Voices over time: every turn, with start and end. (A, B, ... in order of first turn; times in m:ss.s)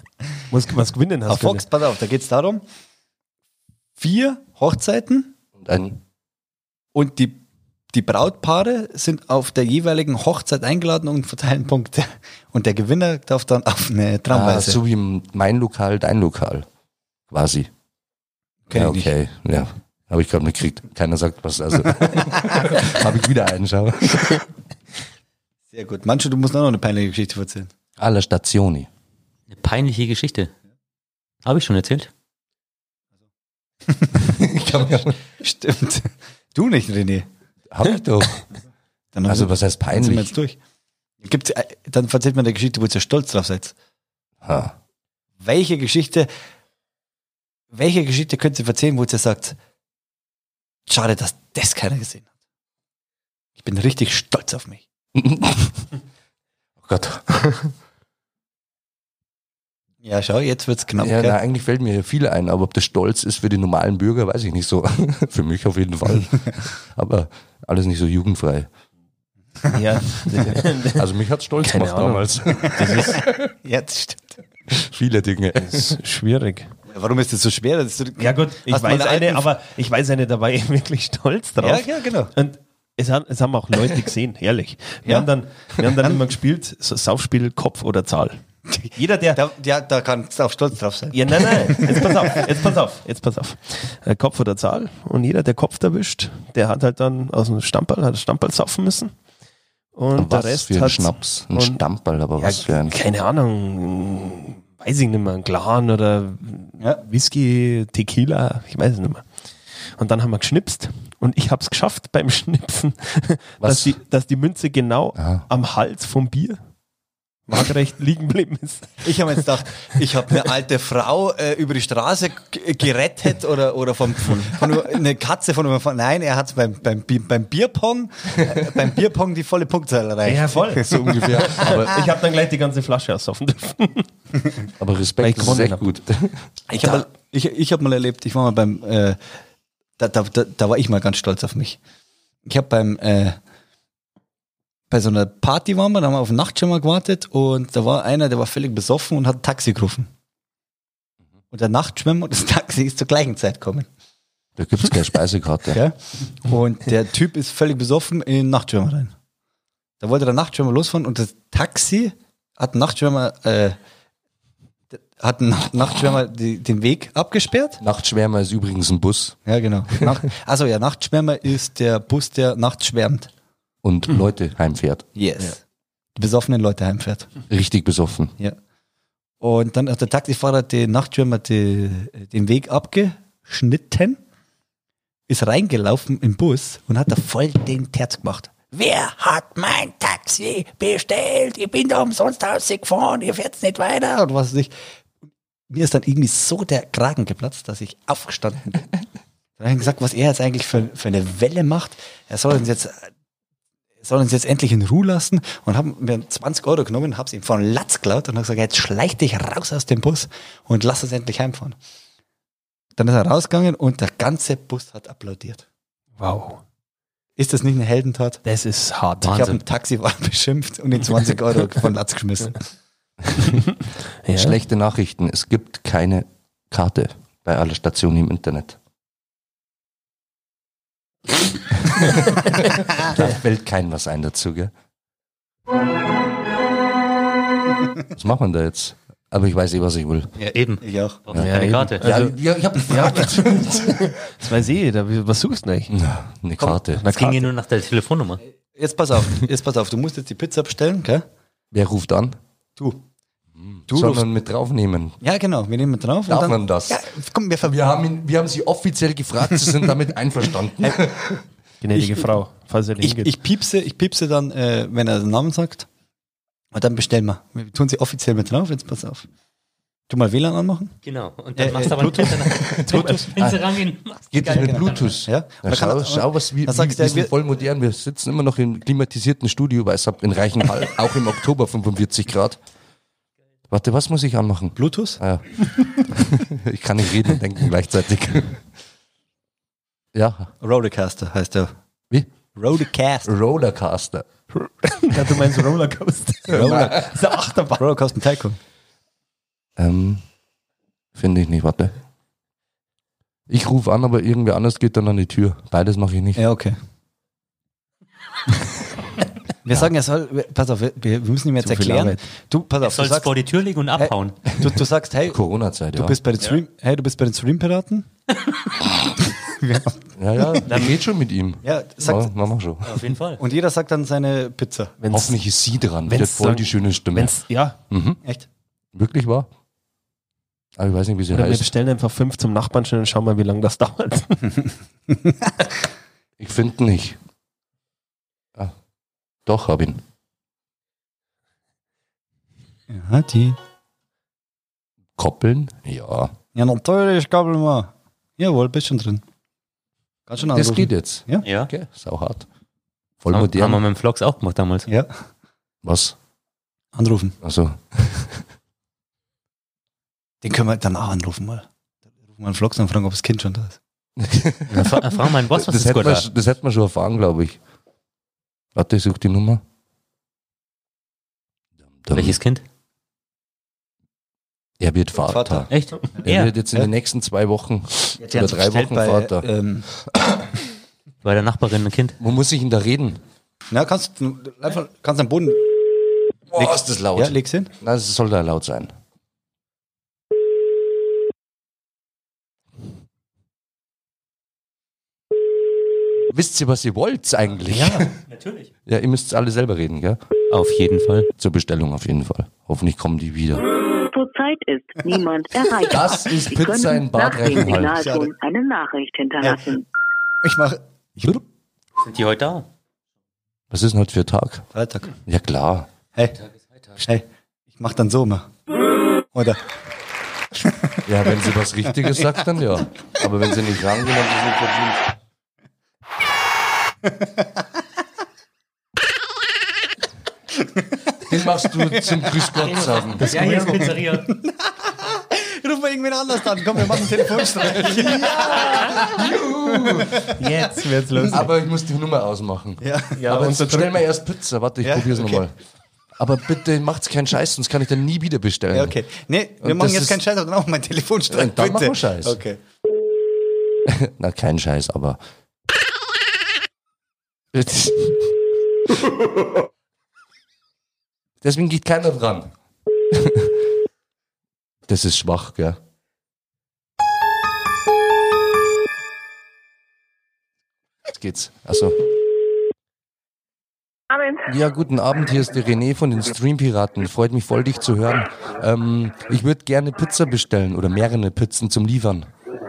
0:00.5-0:01.7 A
0:01.3-0:02.6 B
0:04.0-0:05.3 B
0:05.6-0:06.0 C
0:07.0-0:14.8 B
0:14.3-0:16.7 C
0:17.3-0:17.7 C
0:18.7-0:19.1 B
0:18.7-0:24.5 C
0:25.7-0:27.7 B
0:28.0-0:28.9 C
0:29.5-0:30.5 D
0:31.4-0:32.1 D
0:33.9-0:34.3 B
0:34.2-0:35.2 C
0:35.4-0:37.3 B
0:37.7-0:38.4 C
0:39.1-0:40.6 B
0:39.3-0:40.3 C
0:41.2-0:43.7 B
0:44.4-0:44.8 C
0:45.4-0:46.3 B
0:47.7-0:49.6 B
0:50.9-0:52.3 B
0:53.6-0:54.8 B
0:55.2-0:55.8 C
0:56.8-0:57.7 C
1:00.0-1:01.4 B
1:01.0-1:08.7 C
1:09.7-1:11.1 A
1:10.5-1:13.5 C
1:11.6-1:13.3 A
1:13.6-1:14.4 B
1:14.7-1:16.0 C
1:15.6-1:16.7 A
1:16.9-1:19.5 B
1:18.2-1:28.4 A
1:21.6-1:22.3 B
1:25.9-1:26.2 B
1:28.8-1:31.9 B
1:29.0-1:29.4 A
1:31.1-1:39.2 A
1:39.9-1:41.8 A
1:40.1-1:43.0 C
1:42.4-1:49.3 A
1:50.0-1:56.6 A
1:53.6-1:54.0 C
1:55.2-1:55.5 C
1:57.5-1:59.2 A
1:59.0-2:11.7 B
2:10.2-2:14.1 A
2:10.9-2:12.1 C
2:14.8-2:16.4 C
2:15.2-2:15.8 A
2:16.7-2:17.1 A
2:16.8-2:19.2 B
2:20.0-2:21.8 B
2:22.5-2:23.4 B
2:24.9-2:30.1 B
2:31.5-2:33.9 B
2:34.6-2:35.8 C
2:35.7-2:39.1 B
2:40.0-2:43.8 B
2:44.9-2:47.8 B
2:47.8-2:49.4 C
2:49.5-2:53.3 B
2:53.8-2:55.1 C
2:55.2-2:55.6 B
2:56.2-2:57.3 B
2:57.5-2:58.4 C
2:59.4-3:04.2 B
3:05.3-3:14.7 B
3:15.7-3:18.8 B
3:19.6-3:23.1 B
3:24.0-3:31.8 B
3:33.0-3:35.6 B
3:36.2-3:36.6 A
3:37.4-3:38.4 B
3:38.4-3:39.5 A
3:39.2-3:39.6 D
3:39.2-3:42.7 B
3:44.2-3:44.6 A
3:44.3-3:48.8 C
3:51.8-3:54.7 C
3:58.1-4:00.3 C
4:00.4-4:01.2 B
4:00.4-4:02.2 D
4:01.3-4:04.0 C
4:01.4-4:05.9 A
4:05.9-4:07.0 C
4:06.8-4:07.5 A
4:07.1-4:08.4 D
4:08.7-4:11.2 B
4:11.7-4:12.4 C
4:12.8-4:13.0 B
4:13.6-4:15.2 C
4:13.9-4:14.3 B
4:15.2-4:17.8 B
4:16.3-4:17.0 C
4:17.6-4:21.4 C
4:21.8-4:23.4 A
4:22.0-4:22.3 B
4:23.0-4:25.9 B
4:26.7-4:29.3 B
4:30.1-4:31.0 B
4:31.0-4:35.2 D
4:31.6-4:33.4 B
4:32.6-4:33.6 C
4:34.3-4:42.6 C
4:34.4-4:37.3 B
4:43.7-4:48.6 C
4:44.8-4:45.2 B
4:50.1-4:50.5 C
4:50.6-4:51.7 B
4:52.5-4:53.3 B
4:53.3-4:54.3 C
4:54.8-4:57.9 A
4:56.5-4:57.1 B
4:56.5-4:57.1 C
4:57.8-4:58.6 B
4:59.8-5:00.2 C
5:01.2-5:01.9 C
5:03.5-5:06.4 C
5:06.4-5:06.8 B
5:09.6-5:13.3 B
5:11.6-5:12.2 A
5:12.8-5:14.4 D
5:14.0-5:15.4 B
5:15.3-5:16.2 C
5:15.9-5:18.1 B
5:19.3-5:20.6 B
5:20.2-5:23.0 C
5:20.7-5:20.9 A
5:21.6-5:22.3 B
5:22.8-5:23.4 D
5:23.4-5:25.0 B
5:25.0-5:25.4 A
5:25.1-5:28.2 C
5:26.1-5:27.8 A
5:28.9-5:29.5 C
5:30.8-5:31.7 C
5:31.3-5:34.7 A
5:36.4-5:37.2 C
5:39.5-5:40.0 C
5:42.9-5:43.6 B
5:45.2-5:46.3 C
5:46.6-5:49.2 B
5:50.3-5:51.4 B
5:50.5-5:52.5 C
5:51.4-5:51.7 D
5:53.2-5:53.8 C
5:53.3-5:54.9 D
5:55.8-5:56.2 C
5:57.0-5:57.4 B
5:57.4-5:58.4 C
6:00.4-6:01.7 B
6:02.3-6:03.8 B
6:04.2-6:07.6 C
6:04.7-6:06.2 D
6:08.8-6:09.6 C
6:12.0-6:12.4 C
6:12.1-6:12.6 D
6:14.8-6:15.7 C
6:15.2-6:15.7 B
6:15.7-6:16.5 D
6:16.2-6:19.4 C
6:18.2-6:19.9 B
6:20.1-6:20.4 C
6:21.2-6:22.2 D
6:22.2-6:23.2 C
6:23.7-6:25.6 B
6:26.5-6:28.9 C
6:26.6-6:27.7 B
6:36.3-6:38.1 C
6:37.8-6:38.0 A
6:38.3-6:38.7 D
6:38.9-6:40.2 C
6:40.5-6:41.3 D
6:41.4-6:43.7 C
6:44.0-6:49.8 E
6:45.7-6:48.2 C
6:47.9-6:48.3 B
6:50.4-6:51.4 B
6:52.0-6:52.7 D
6:53.7-6:54.7 C
6:54.7-6:55.1 B
6:55.3-6:55.9 C
6:57.0-6:58.5 B
6:59.3-6:59.6 B
7:01.0-7:05.0 C
7:11.2-7:13.4 C
7:12.6-7:14.3 D
7:13.2-7:13.9 A
7:13.8-7:21.4 B
7:17.4-7:20.3 C
7:20.4-7:21.5 A
7:21.2-7:25.5 C
7:22.8-7:23.3 B
7:23.2-7:24.0 A
7:24.8-7:25.4 B
7:26.2-7:29.0 C
7:28.7-7:32.6 B
7:29.6-7:30.2 C
7:31.3-7:32.4 C
7:33.8-7:35.2 C
7:37.5-7:38.2 C
7:38.9-7:39.5 C
7:41.4-7:42.5 C
7:43.1-7:43.6 C
7:44.9-7:45.8 C
7:51.1-7:52.0 C
7:54.5-8:02.3 C